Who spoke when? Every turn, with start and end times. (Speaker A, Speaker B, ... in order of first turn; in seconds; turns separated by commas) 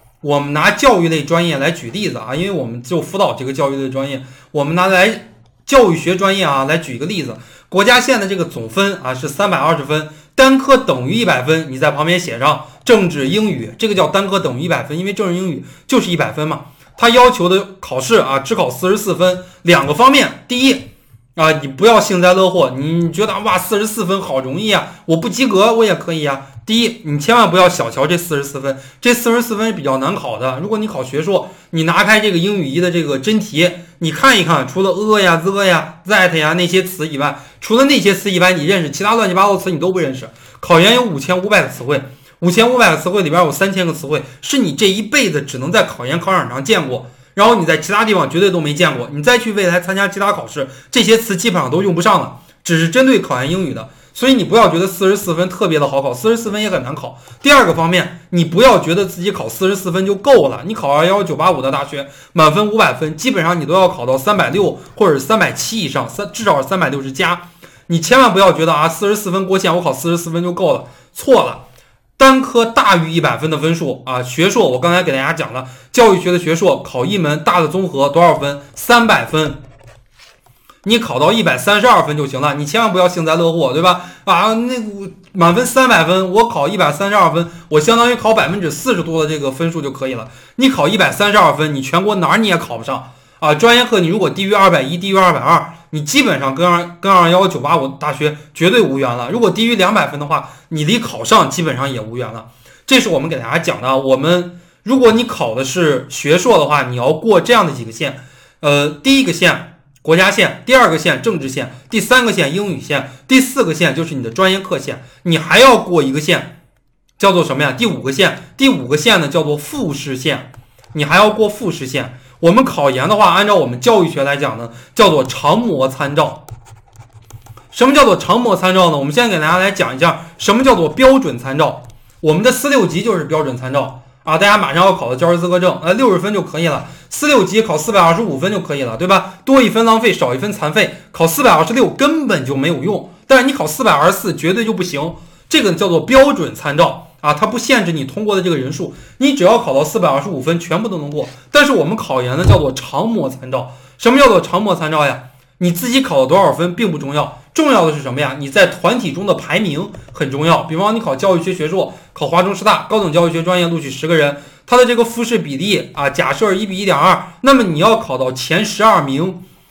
Speaker A: 0.2-20.8, Speaker A: 21.4-71.6, Speaker A: 72.2-79.6, Speaker A: 80.8-116.5, Speaker A: 117.2-126.4, Speaker A: 127.7-169.4